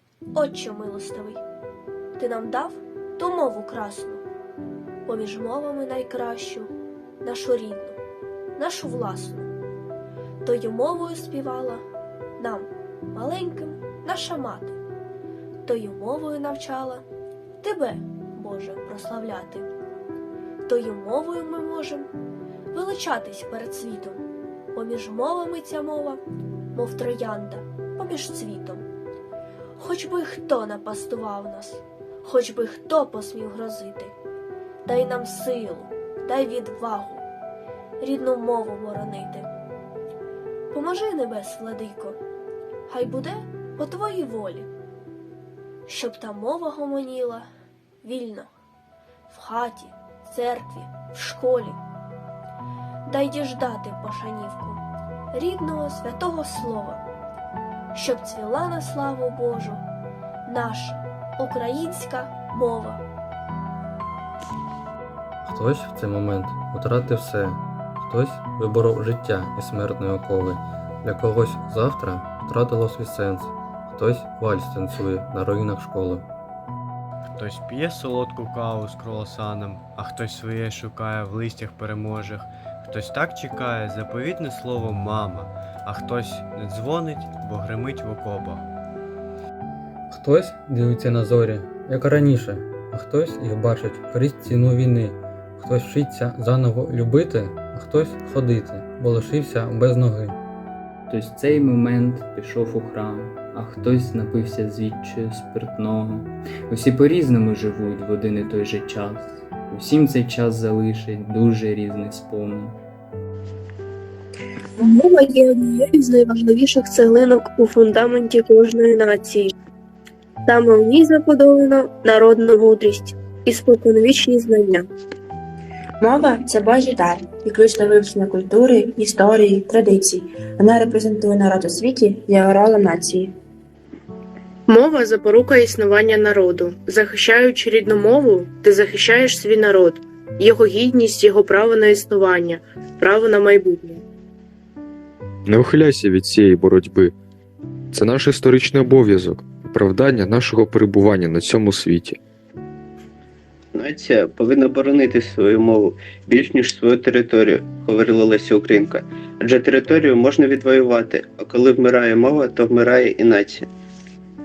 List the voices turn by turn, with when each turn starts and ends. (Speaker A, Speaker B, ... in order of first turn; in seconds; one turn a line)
Speaker A: 0.3-1.4
Speaker A: 2.2-4.2
Speaker A: 5.0-8.0
Speaker A: 8.6-9.5
Speaker A: 10.4-11.8
Speaker A: 12.4-14.8
Speaker A: 15.7-17.0
Speaker A: 17.6-19.7
Speaker A: 20.6-22.1
Speaker A: 22.7-26.2
Speaker A: 26.7-28.8
Speaker A: 29.8-34.1
Speaker A: 34.8-37.2
Speaker A: 38.0-39.5
Speaker A: 40.7-42.2
Speaker A: 42.9-44.7
Speaker A: 45.9-47.5
Speaker A: 48.0-48.5
Speaker A: 49.3-51.8
Speaker A: 53.0-57.0
Speaker A: 57.9-59.8
Speaker A: 60.5-63.0
Speaker B: 65.4-76.2
Speaker C: 77.3-88.6
Speaker B: 90.1-100.4
Speaker D: 101.1-112.8
Speaker A: 114.8-119.5
Speaker A: 120.5-124.9
Speaker E: 126.0-133.3
Speaker F: 134.7-144.0
Speaker G: 145.4-147.1
Speaker G: 147.9-152.2
Speaker H: 153.7-163.7